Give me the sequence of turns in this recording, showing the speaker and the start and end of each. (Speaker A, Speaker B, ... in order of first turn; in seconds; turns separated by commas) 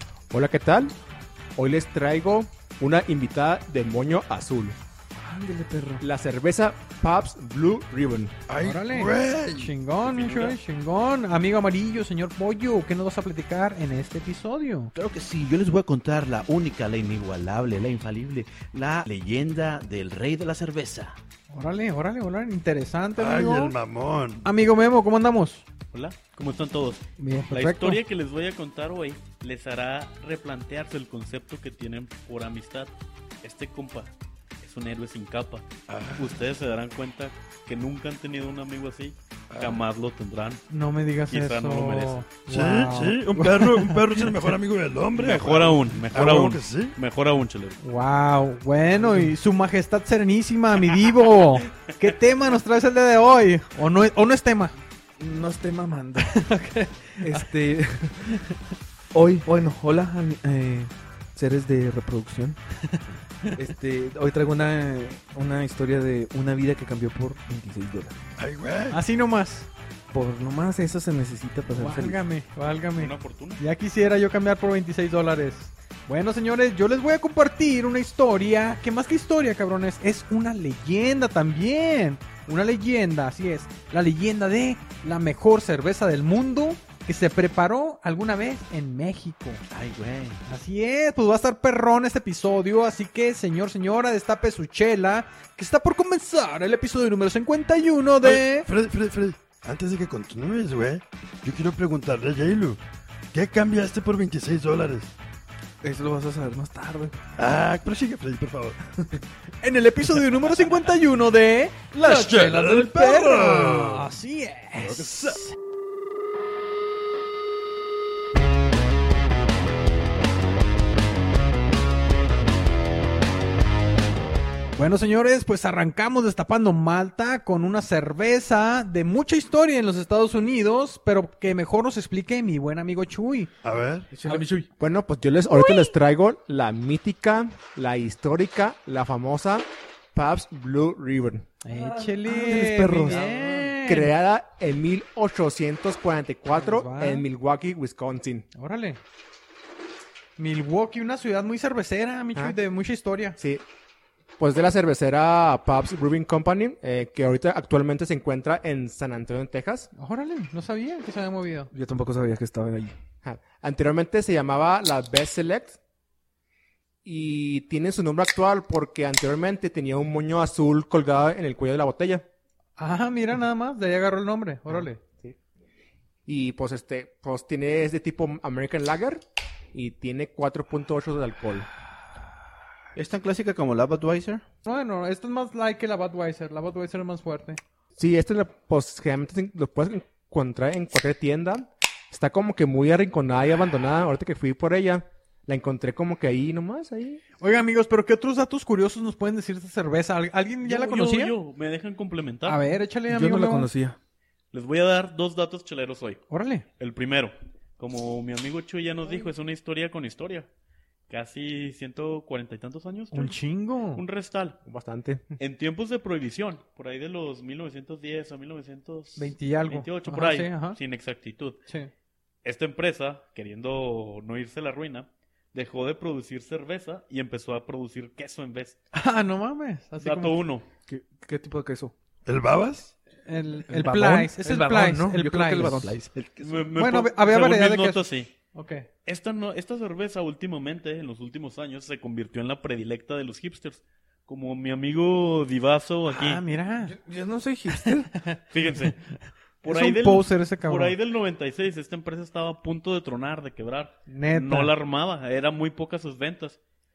Speaker A: 0.3-0.9, Speaker A: 1.6-4.8, Speaker B: 5.2-6.0, Speaker A: 6.0-8.3, Speaker C: 8.5-10.6, Speaker D: 8.6-14.9, Speaker E: 14.9-21.2, Speaker D: 21.5-23.7, Speaker C: 23.1-24.4, Speaker D: 24.4-25.6, Speaker F: 25.9-32.9, Speaker D: 27.2-28.0, Speaker F: 33.4-35.6, Speaker C: 35.9-36.4, Speaker F: 36.2-40.6, Speaker C: 39.5-39.8, Speaker D: 40.7-44.2, Speaker F: 41.3-42.3, Speaker C: 42.5-46.9, Speaker F: 45.1-47.8, Speaker D: 47.8-54.8, Speaker B: 49.0-49.3, Speaker B: 55.2-56.3, Speaker D: 56.2-57.5, Speaker B: 57.2-58.4, Speaker B: 59.1-62.6, Speaker D: 62.9-63.6, Speaker B: 63.5-68.2, Speaker C: 68.4-69.0, Speaker D: 68.9-69.7, Speaker B: 70.1-72.2, Speaker D: 71.7-89.6, Speaker F: 73.0-73.6, Speaker E: 89.7-90.4, Speaker D: 90.5-98.7, Speaker C: 98.2-102.8, Speaker C: 103.3-105.1, Speaker B: 105.8-107.2, Speaker C: 107.4-108.8, Speaker D: 109.6-115.5, Speaker C: 112.0-114.1, Speaker C: 114.7-115.4, Speaker D: 124.8-133.5, Speaker C: 133.6-134.1, Speaker B: 134.1-134.6, Speaker D: 134.2-134.7, Speaker A: 134.8-141.5, Speaker D: 135.6-135.8, Speaker D: 141.6-144.1, Speaker B: 141.7-143.5, Speaker A: 143.8-148.4, Speaker D: 146.5-147.3, Speaker D: 148.5-149.0, Speaker D: 150.4-153.4, Speaker A: 153.4-153.6, Speaker A: 154.4-159.9, Speaker D: 159.9-161.7, Speaker B: 161.7-162.9, Speaker A: 163.2-165.8, Speaker A: 167.0-172.2, Speaker D: 172.8-175.0, Speaker A: 174.8-175.3, Speaker A: 176.2-181.7, Speaker E: 182.9-184.4, Speaker D: 184.6-187.6, Speaker A: 188.0-197.2, Speaker D: 197.4-201.3, Speaker F: 200.6-202.6, Speaker D: 202.4-203.7, Speaker B: 203.1-204.0, Speaker F: 204.5-206.2, Speaker D: 206.3-206.6, Speaker F: 206.8-210.5, Speaker F: 211.1-213.4, Speaker D: 213.1-214.0, Speaker F: 213.9-214.6, Speaker A: 214.7-215.2, Speaker F: 215.4-221.6, Speaker D: 219.2-220.8, Speaker F: 222.4-228.8, Speaker D: 228.9-230.3, Speaker F: 230.0-230.7, Speaker B: 230.9-231.9, Speaker C: 232.2-232.9, Speaker D: 233.2-235.9, Speaker B: 233.7-236.1, Speaker E: 235.6-236.7, Speaker F: 236.4-238.3, Speaker D: 236.8-238.9, Speaker F: 239.1-246.4, Speaker D: 246.1-246.9, Speaker B: 246.8-248.1, Speaker D: 247.7-248.4, Speaker F: 248.5-249.0, Speaker F: 249.6-256.6, Speaker D: 249.7-250.9, Speaker D: 254.1-254.7